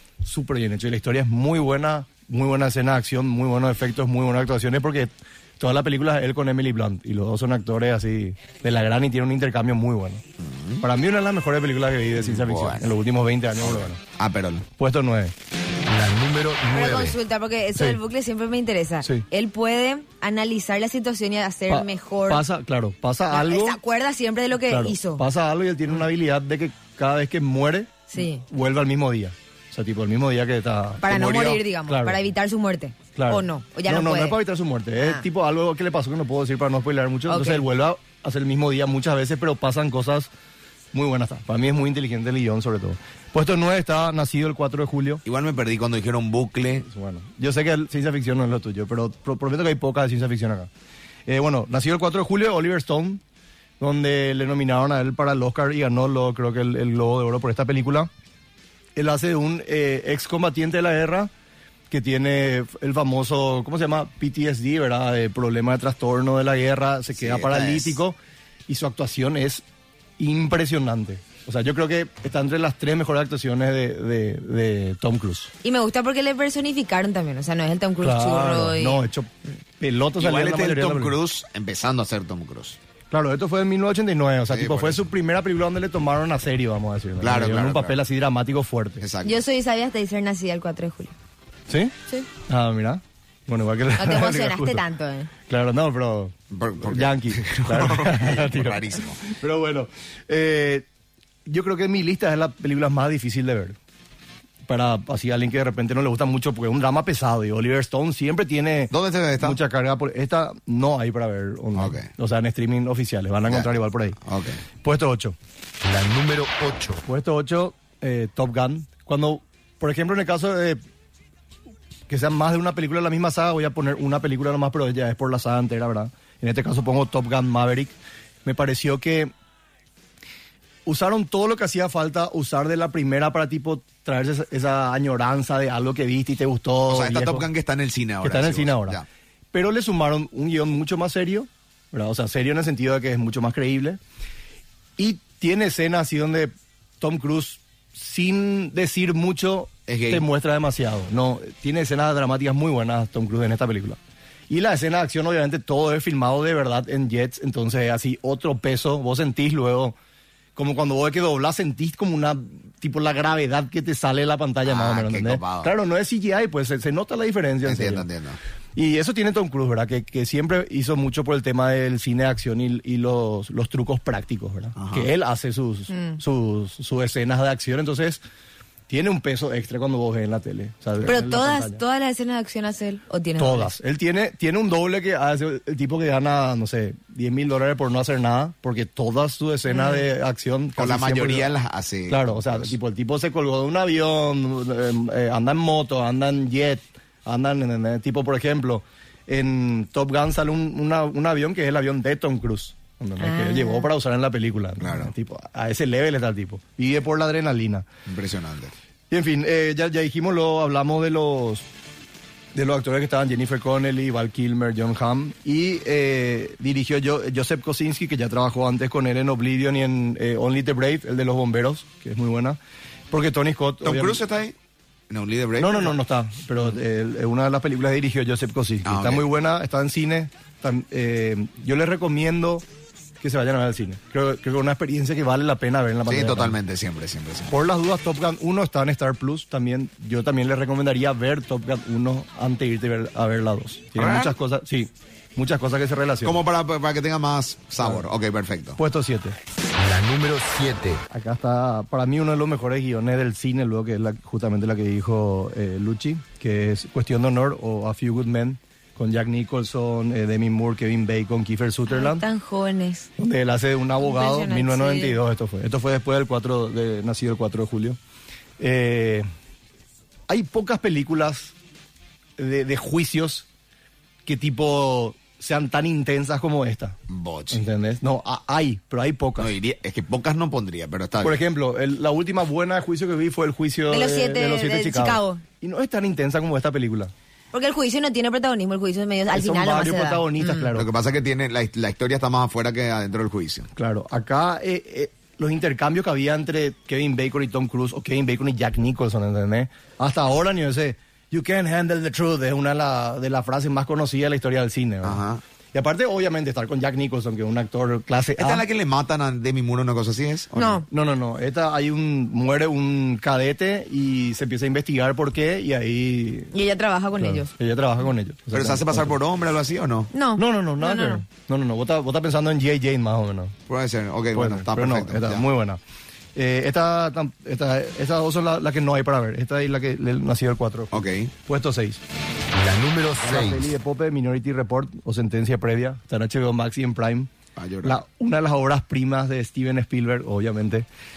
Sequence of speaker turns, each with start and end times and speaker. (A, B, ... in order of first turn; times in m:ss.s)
0:00.2-0:10.2 A
0:10.4-0:10.8 B
0:10.8-0:14.0 A
0:12.1-0:12.9 B
0:13.6-0:14.6 B
0:14.8-0:15.3 A
0:15.9-0:17.2 C
0:16.7-0:22.4 D
0:17.7-0:18.0 A
0:21.7-0:23.8 A
0:23.3-0:25.2 D
0:24.6-0:31.1 A
0:28.1-0:28.4 D
0:31.0-0:34.4 D
0:31.1-0:31.6 B
0:31.9-0:32.2 A
0:33.2-0:40.3 A
0:35.0-0:35.2 D
0:37.3-0:37.6 D
0:40.9-0:45.2 A
0:45.2-0:46.9 B
0:46.9-0:50.7 A
0:51.3-0:53.2 A
0:53.8-0:58.1 A
0:59.0-1:01.3 A
1:01.9-1:08.2 A
1:07.1-1:08.0 B
1:08.7-1:09.6 A
1:10.2-1:15.5 A
1:15.6-1:19.0 D
1:18.0-1:21.2 A
1:20.2-1:22.8 B
1:23.1-1:29.0 A
1:24.5-1:25.1 B
1:27.2-1:28.0 B
1:29.0-1:29.4 B
1:29.2-1:31.1 D
1:31.7-1:31.9 A
1:32.5-1:34.8 A
1:34.0-1:35.3 D
1:35.5-1:40.8 A
1:36.5-1:39.2 B
1:41.5-1:43.8 A
1:44.6-1:54.2 A
1:48.9-1:49.6 B
1:51.8-1:52.1 B
1:53.4-1:54.6 B
1:54.8-1:55.3 A
1:55.8-1:57.0 C
1:57.0-2:00.8 A
2:02.1-2:07.9 A
2:08.4-2:09.3 A
2:10.8-2:17.5 A
2:16.9-2:19.0 B
2:18.2-2:19.0 A
2:19.5-2:24.0 A
2:25.0-2:34.0 A
2:29.9-2:30.2 B
2:34.5-2:40.0 A
2:40.6-2:48.1 A
2:44.6-2:45.7 B
2:47.6-2:48.4 B
2:48.8-2:58.2 A
2:54.8-2:55.1 B
2:55.9-2:56.2 D
2:58.9-3:01.8 A
3:01.0-3:03.7 D
3:03.4-3:11.5 A
3:09.7-3:10.1 D
3:10.8-3:12.7 B
3:12.1-3:27.8 A
3:23.2-3:23.9 D
3:24.8-3:25.1 B
3:28.0-3:28.7 B
3:29.1-3:31.6 A
3:32.5-3:42.6 A
3:43.1-3:44.2 A
3:43.8-3:44.5 B
3:45.1-3:46.0 B
3:45.6-3:52.6 A
3:48.8-3:49.3 B
3:53.2-3:56.6 A
3:56.1-3:57.6 B
3:57.5-4:06.4 A
4:03.9-4:04.4 B
4:06.2-4:08.8 B
4:08.8-4:09.4 A
4:09.8-4:11.0 C
4:11.1-4:22.2 A
4:21.9-4:23.1 D
4:23.2-4:28.0 A
4:24.0-4:25.2 D
4:28.6-4:29.3 A
4:30.3-4:31.5 A
4:32.4-4:33.5 A
4:34.2-4:37.0 A
4:37.1-4:37.6 B
4:37.5-4:39.5 A
4:39.4-4:41.4 B
4:41.2-4:47.1 A
4:43.9-4:45.4 D
4:47.5-4:50.7 D
4:49.3-4:50.9 A
4:50.7-4:53.7 B
4:53.8-5:05.2 A
5:05.0-5:05.4 B
5:05.7-5:08.6 A
5:08.4-5:10.8 B
5:10.6-5:10.8 D
5:10.9-5:16.5 A
5:16.5-5:17.5 D
5:17.2-5:19.2 A
5:18.5-5:20.1 B
5:20.1-5:21.2 D
5:20.4-5:23.5 A
5:23.7-5:25.4 B
5:24.3-5:25.8 A
5:26.4-5:32.0 A
5:30.9-5:31.3 B
5:32.5-5:33.7 C
5:33.2-5:37.3 A
5:37.6-5:38.0 B
5:37.8-5:40.9 A